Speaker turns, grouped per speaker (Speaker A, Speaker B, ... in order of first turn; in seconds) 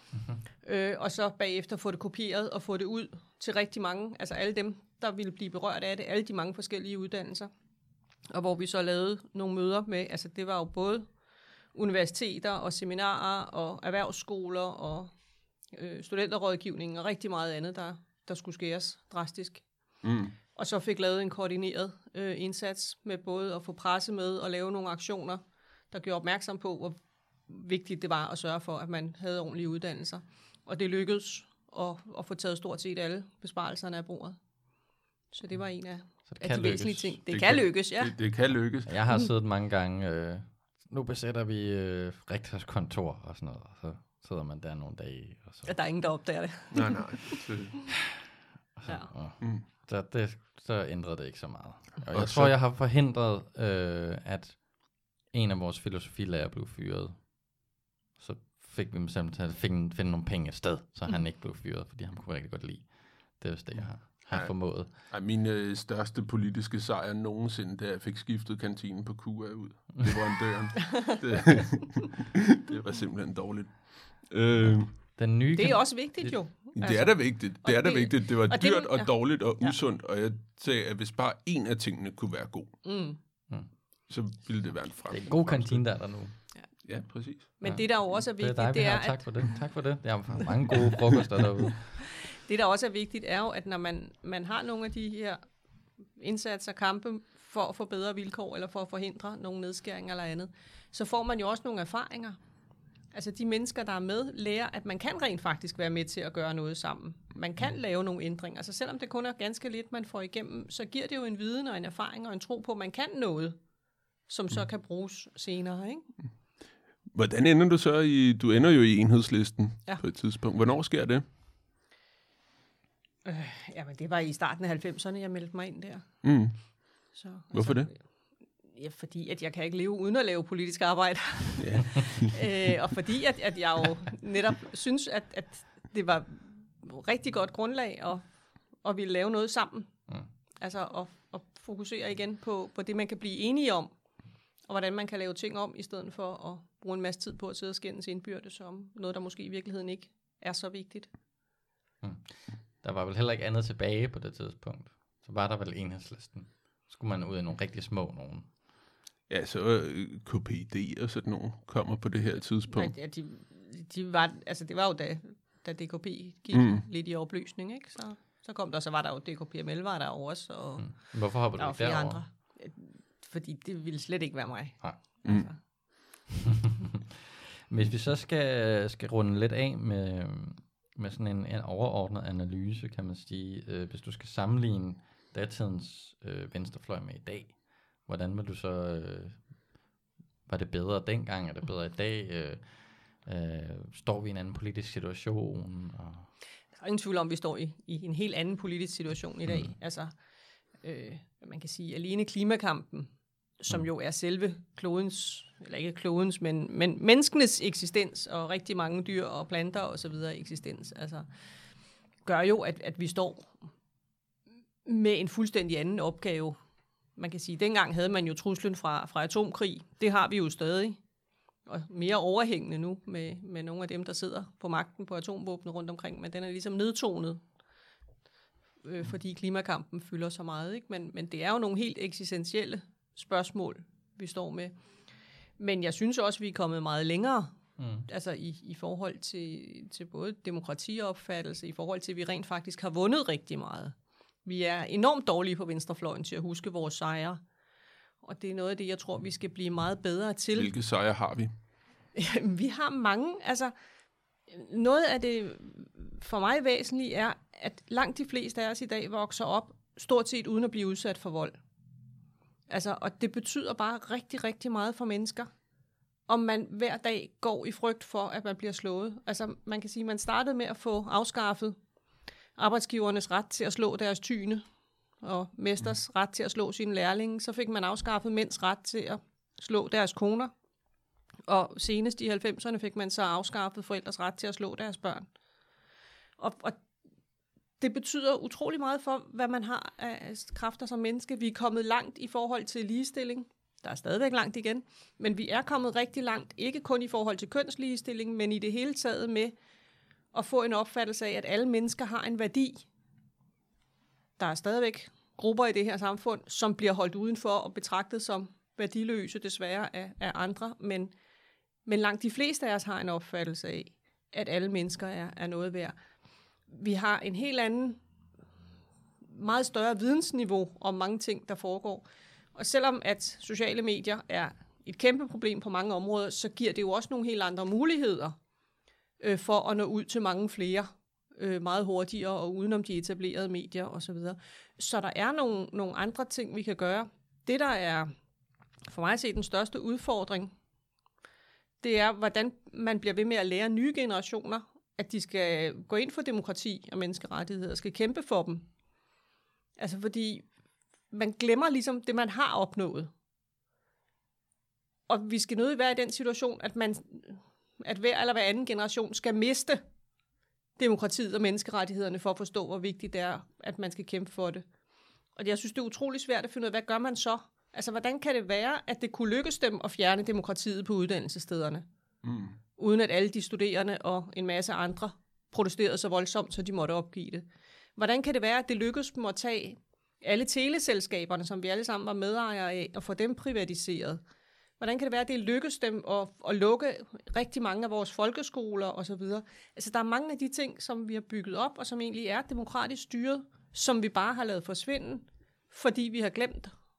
Speaker A: 0.6-7.5, 8.3-11.1, 11.7-15.1, 15.7-19.7, 20.6-34.4, 35.3-38.1, 45.7-47.4, 48.9-49.1, 75.5-79.8, 82.8-83.2, 87.4-89.6, 92.2-95.5, 96.1-102.4, 103.1-113.6, 114.3-116.1, 123.2-126.2, 127.1-128.0, 128.7-140.0, 140.6-143.9, 144.7-151.1, 162.7-175.6, 196.8-200.2, 200.8-211.3, 212.2-213.5, 214.8-216.6, 217.2-221.0, 221.7-227.4, 228.8-234.8, 235.6-247.4, 248.2-250.7, 252.2-253.7, 254.5-261.6, 262.7-265.5, 266.3-271.8, 272.6-274.6, 275.2-280.5, 281.5-285.3, 286.4-286.8, 287.8-299.5, 300.3-302.9, 304.4-311.1, 311.9-315.9, 316.7-318.0, 319.3-328.4, 329.2-338.1, 338.9-340.5, 341.8-348.7, 349.8-350.5, 351.1-353.1, 355.1-359.8, 360.8-364.6, 365.4-371.9, 372.8-384.2, 384.8-396.7
Speaker B: 20.0-20.4, 37.3-38.9, 46.7-47.8, 52.1-52.5, 63.8-75.0, 76.8-82.8, 84.1-85.8, 86.8-87.6, 117.1-121.2, 126.2-127.9, 131.6-132.3, 159.3-162.9, 166.5-166.8, 175.2-175.5, 250.6-251.5, 372.2-372.6
Speaker C: 36.3-37.2, 38.9-45.8, 48.8-65.0, 74.7-76.5, 85.1-86.4, 87.6-92.0, 152.0-158.5, 170.8-172.2, 176.5-177.0, 177.7-189.6, 190.5-196.3, 199.5-199.7, 237.8-238.1